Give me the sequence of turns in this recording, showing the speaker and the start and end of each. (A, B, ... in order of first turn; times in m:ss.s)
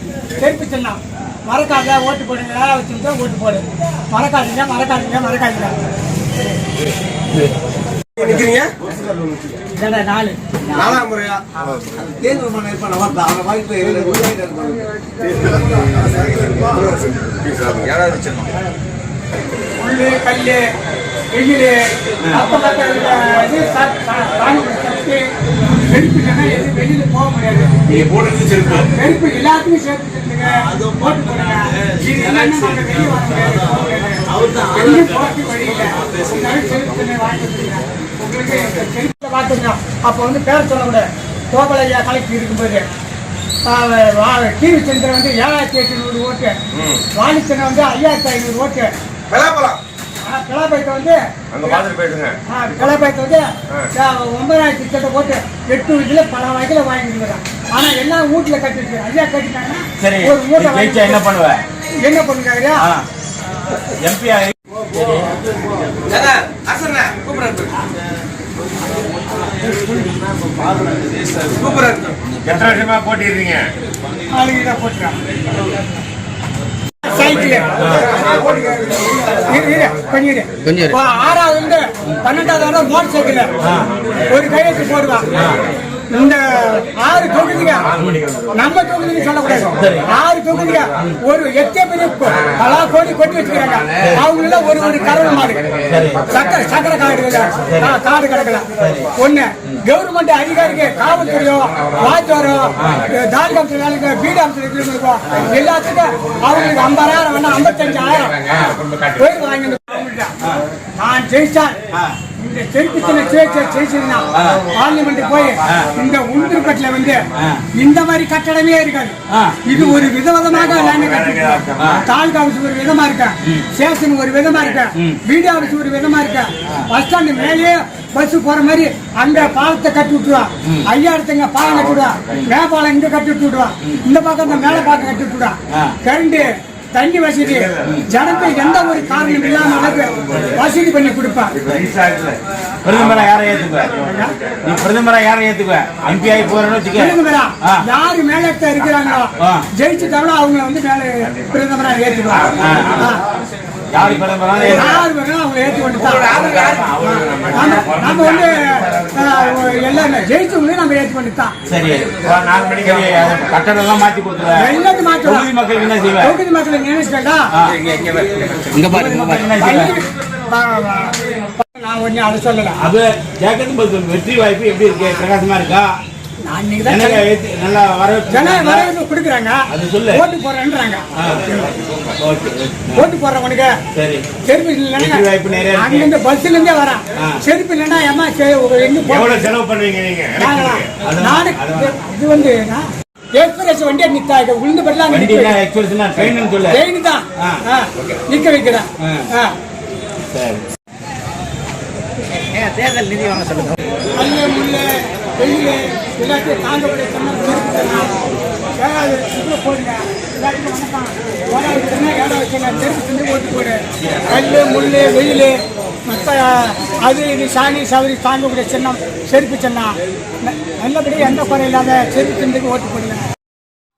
0:00.4-0:05.9 A
0:08.2-0:08.8 B
0:09.7-0:10.4 A
0:10.7-0:11.4 C
0:10.8-0:11.4 B
0:11.9-0:14.9 C
0:17.4-0:18.5 B
0:19.8-0:20.7 A
0:21.3-0:28.1 A
0:27.9-0:28.7 D
0:28.7-0:42.9 A
0:34.4-0:34.7 C
0:43.6-0:46.6 A
0:47.1-0:48.9 A
0:49.3-0:49.8 B
0:50.2-0:51.9 A
0:51.5-0:52.4 B
0:52.5-1:01.2 A
1:00.0-1:01.6 D
1:02.0-1:02.8 A
1:02.8-1:03.1 D
1:03.8-1:05.3 D
1:06.0-1:07.8 B
1:11.6-1:13.7 B
1:14.3-1:15.2 A
1:17.0-1:18.0 A
1:17.8-1:18.2 D
1:18.0-1:19.1 B
1:19.3-1:23.6 A
1:23.6-1:24.0 D
1:24.2-1:25.6 A
1:25.3-1:25.6 D
1:26.1-1:27.9 A
1:28.5-1:35.6 A
1:29.6-1:30.1 D
1:34.0-1:34.3 D
1:35.8-1:36.4 D
1:36.3-1:50.4 A
1:37.6-1:38.0 D
1:38.8-1:39.1 D
1:48.6-1:49.1 B
1:51.0-1:51.8 A
1:51.9-1:52.2 D
1:52.4-2:21.6 A
1:54.3-1:54.7 D
1:55.6-1:55.9 D
1:57.3-1:57.6 D
1:59.3-2:00.0 D
2:00.6-2:02.0 B
2:05.0-2:05.2 D
2:15.7-2:16.0 D
2:17.5-2:20.1 B
2:20.3-2:20.6 D
2:21.6-2:22.4 B
2:22.8-2:24.1 D
2:24.0-2:24.4 A
2:24.6-2:27.8 D
2:26.9-2:33.2 A
2:29.4-2:29.7 D
2:32.3-2:33.0 B
2:32.6-2:33.1 D
2:33.9-2:35.0 D
2:34.6-2:41.5 A
2:36.0-2:39.5 B
2:41.6-2:46.4 D
2:42.2-2:43.6 B
2:44.5-2:45.5 A
2:46.2-2:47.5 A
2:47.5-2:47.8 D
2:47.7-2:48.8 B
2:48.7-2:49.9 D
2:49.5-2:52.8 A
2:52.8-2:56.0 D
2:56.4-2:57.2 A
2:56.8-2:58.9 D
2:58.3-3:01.0 A
2:59.7-3:00.2 D
3:01.2-3:01.6 D
3:01.6-3:02.0 B
3:02.2-3:03.1 D
3:02.9-3:03.7 A
3:03.9-3:04.2 D
3:04.4-3:09.5 A
3:05.0-3:06.1 D
3:09.2-3:10.8 B
3:10.4-3:15.6 A
3:11.0-3:12.0 D
3:15.1-3:16.8 D
3:16.7-3:19.6 A
3:19.0-3:19.3 D
3:20.3-3:20.6 D
3:24.1-3:28.2 A
3:28.7-3:43.2 A
3:34.0-3:34.3 D